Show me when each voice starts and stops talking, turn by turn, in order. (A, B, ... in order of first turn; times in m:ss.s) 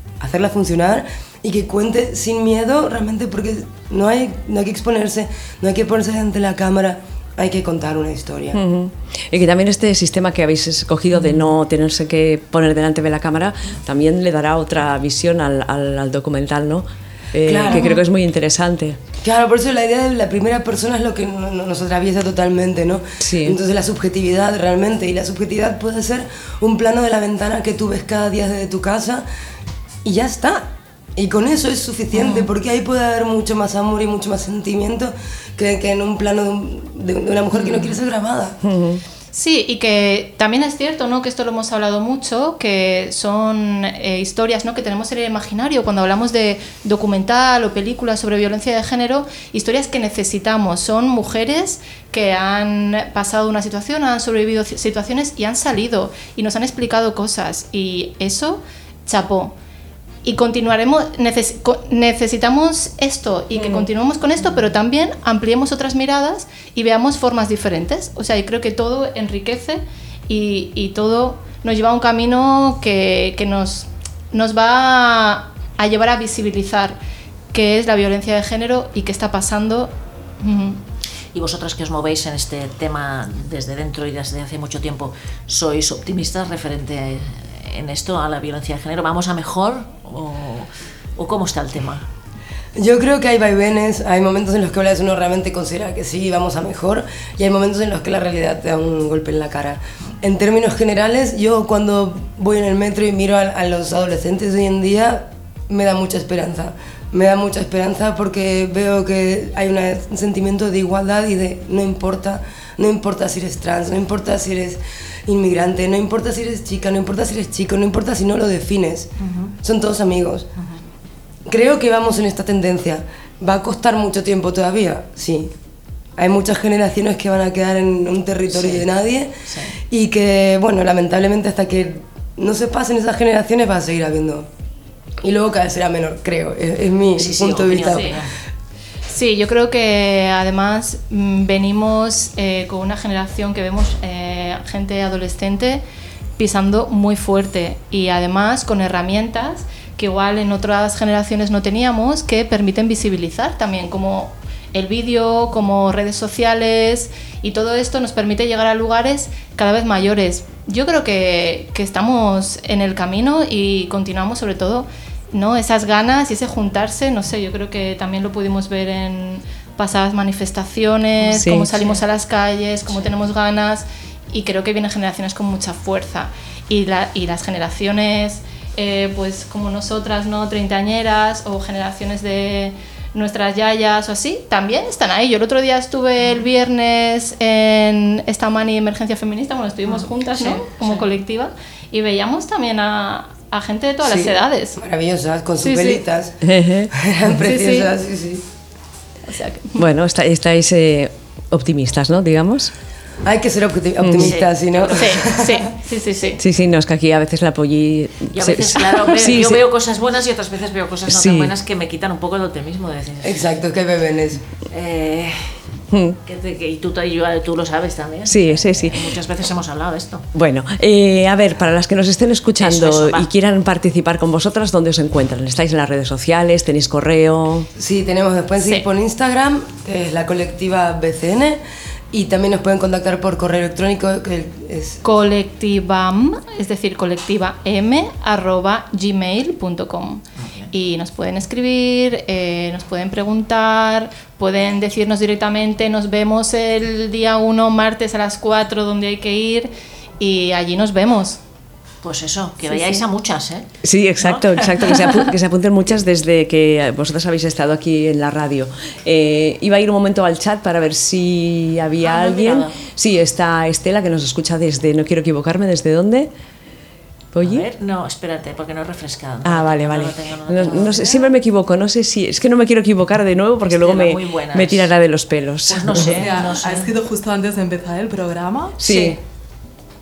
0:00.2-0:08.6 A
0:08.5-0:19.0 B
0:17.5-0:18.0 A
0:17.7-0:18.0 C
0:19.2-0:29.3 A
0:23.2-0:23.6 B
0:30.0-0:30.7 A
0:31.2-0:38.6 A
0:32.2-0:32.5 C
0:38.6-0:39.0 B
0:39.3-0:59.5 C
1:00.2-1:17.0 C
1:03.6-1:03.9 B
1:17.5-1:20.8 C
1:21.3-1:32.0 D
1:32.8-2:00.5 A
1:59.3-1:59.5 D
2:01.5-2:05.5 A
2:06.2-2:09.3 A
2:08.5-2:08.9 D
2:09.5-2:09.7 D
2:09.9-2:14.5 A
2:15.2-2:18.2 A
2:17.2-2:18.3 D
2:17.9-2:18.2 C
2:19.1-2:25.8 C
2:26.4-3:14.8 C
2:51.3-2:51.7 B
3:10.0-3:11.0 D
3:14.0-3:16.4 A
3:15.6-3:16.0 C
3:16.4-3:16.9 B
3:17.0-3:18.4 A
3:17.4-3:17.9 C
3:19.3-3:19.8 C
3:19.8-3:22.7 B
3:23.2-3:25.6 A
3:24.0-3:24.3 B
3:24.2-3:25.2 D
3:25.0-3:26.4 C
3:26.4-3:29.6 B
3:28.3-3:33.5 D
3:31.1-3:31.5 B
3:33.2-3:34.4 A
3:34.7-3:35.5 D
3:35.9-3:36.2 B
3:36.2-3:40.2 D
3:38.3-3:39.1 B
3:40.4-3:47.7 B
3:42.6-3:43.3 D
3:47.8-3:51.6 A
3:48.6-3:48.9 C
3:52.1-3:55.0 A
3:55.0-4:11.4 C
4:00.4-4:00.7 D
4:12.0-4:13.7 D
4:12.7-4:13.0 C
4:13.8-4:26.3 B
4:14.2-4:15.2 D
4:22.0-4:22.8 D
4:27.3-4:27.7 B
4:27.4-4:31.3 D
4:29.4-4:36.3 B
4:33.7-4:34.9 D
4:35.7-4:36.9 D
4:36.0-4:38.8 E
4:38.8-4:39.2 B
4:38.8-4:39.2 D